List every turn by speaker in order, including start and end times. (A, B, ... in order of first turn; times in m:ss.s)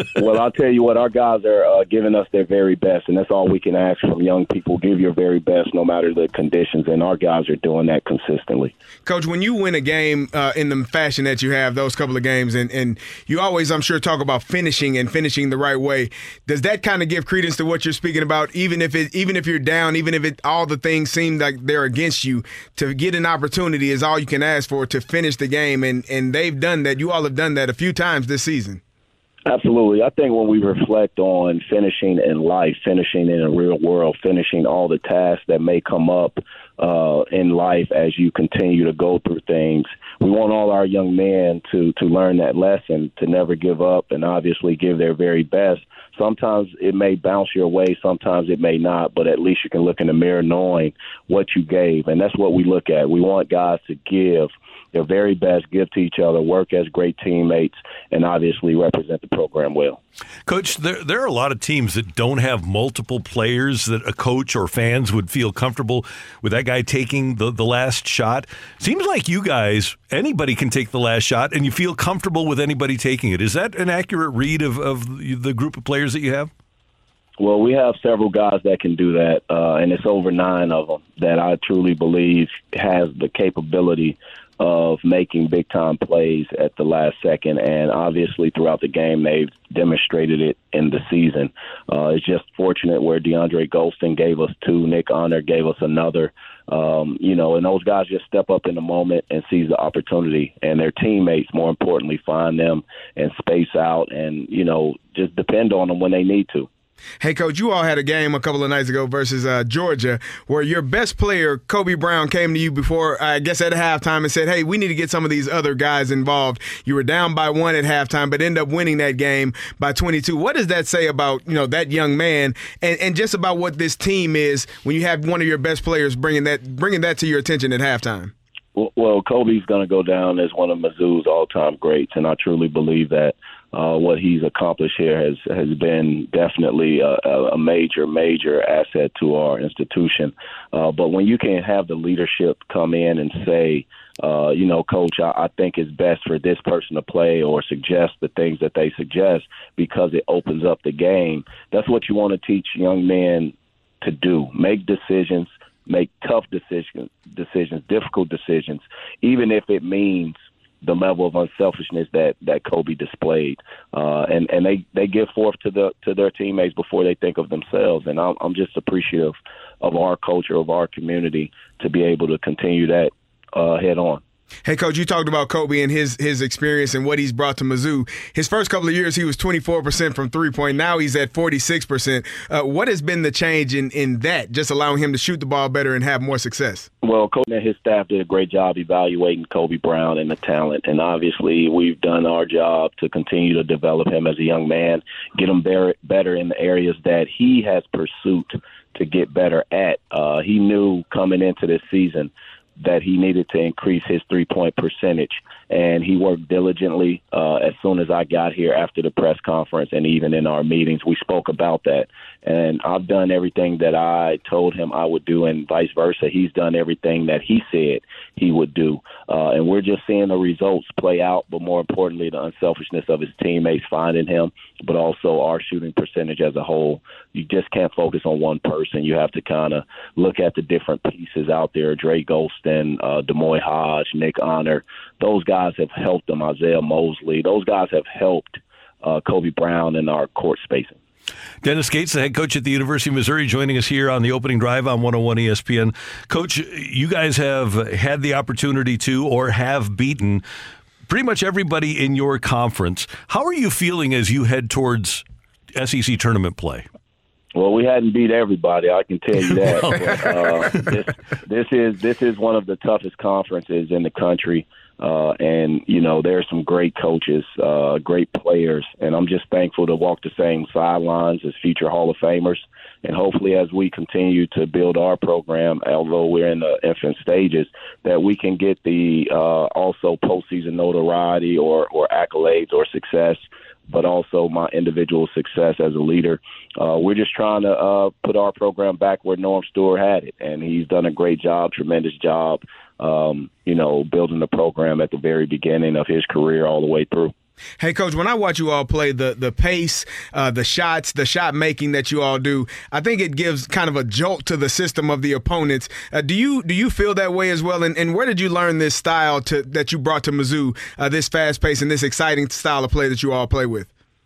0:00.2-0:08.7 A
0:09.0-0:28.8 B
0:29.4-1:00.0 A
1:00.4-1:16.5 C
1:17.4-1:46.7 A
1:47.2-2:08.3 B
2:08.8-2:54.2 A
2:54.6-3:06.9 B
3:07.0-4:01.0 A
4:01.6-4:10.4 C
4:11.1-4:15.2 C
4:15.8-4:16.8 C
4:17.6-4:57.3 A
4:19.5-4:20.9 C
4:57.8-5:13.9 B